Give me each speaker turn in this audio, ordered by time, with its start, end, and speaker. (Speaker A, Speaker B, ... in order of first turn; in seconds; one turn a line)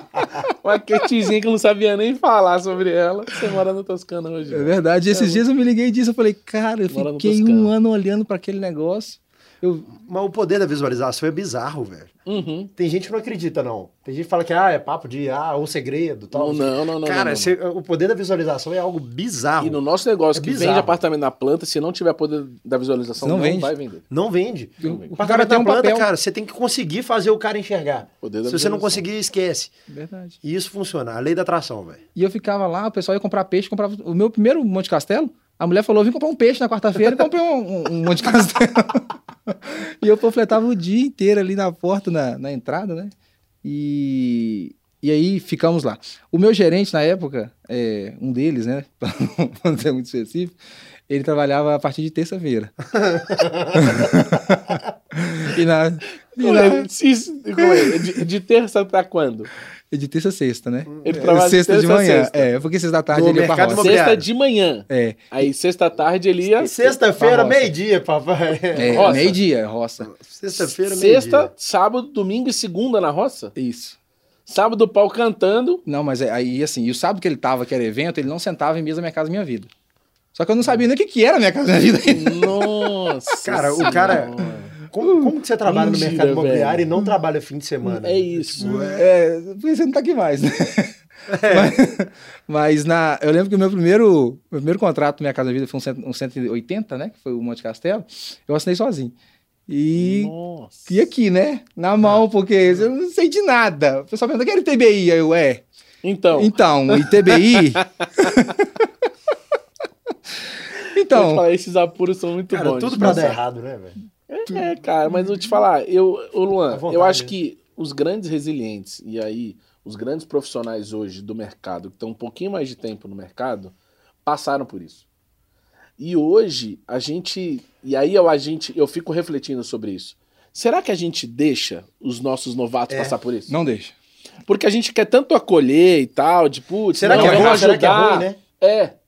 Speaker A: 0.6-5.4
Speaker B: 4.5-9.9
Speaker A: 6.9-7.7
Speaker C: 9.9-12.1
Speaker A: 12.2-12.7
Speaker C: 12.8-19.8
Speaker A: 16.3-17.5
Speaker A: 19.6-24.0
Speaker C: 20.3-21.0
Speaker B: 23.2-23.7
Speaker C: 24.1-29.7
Speaker A: 24.8-25.1
Speaker B: 24.8-26.1
Speaker A: 28.2-29.0
Speaker B: 29.9-30.4
Speaker C: 30.4-32.0
Speaker B: 32.1-50.5
Speaker B: 51.1-52.7
Speaker C: 53.0-54.0
Speaker B: 53.7-56.9
Speaker A: 56.4-59.5
Speaker B: 57.6-58.2
Speaker B: 59.9-64.0
Speaker A: 61.0-62.5
Speaker C: 63.1-64.3
Speaker A: 63.8-66.9
Speaker B: 64.9-65.5
Speaker C: 66.6-69.4
Speaker B: 67.2-67.7
Speaker B: 68.8-70.1
Speaker A: 68.8-69.4
Speaker C: 70.0-71.5
Speaker A: 70.6-73.5
Speaker B: 73.5-74.0
Speaker A: 74.5-75.8
Speaker B: 75.8-79.7
Speaker B: 80.3-82.9
Speaker A: 82.1-84.7
Speaker C: 83.4-84.3
Speaker B: 83.8-84.2
Speaker C: 84.9-89.1
Speaker B: 85.0-85.3
Speaker A: 85.7-86.9
Speaker A: 87.8-88.9
Speaker B: 88.6-99.1
Speaker C: 91.3-91.8
Speaker B: 99.7-100.3
Speaker A: 100.0-101.0
Speaker B: 100.9-105.6
Speaker A: 106.0-108.0
Speaker B: 106.3-108.8
Speaker B: 110.9-111.4
Speaker A: 111.1-113.4
Speaker C: 112.5-114.0
Speaker A: 114.3-123.7
Speaker C: 116.7-117.3
Speaker A: 124.2-125.0
Speaker A: 126.0-133.5
Speaker C: 132.9-133.2
Speaker B: 133.5-133.9
Speaker A: 134.5-138.9
Speaker C: 136.9-138.4
Speaker B: 137.1-137.6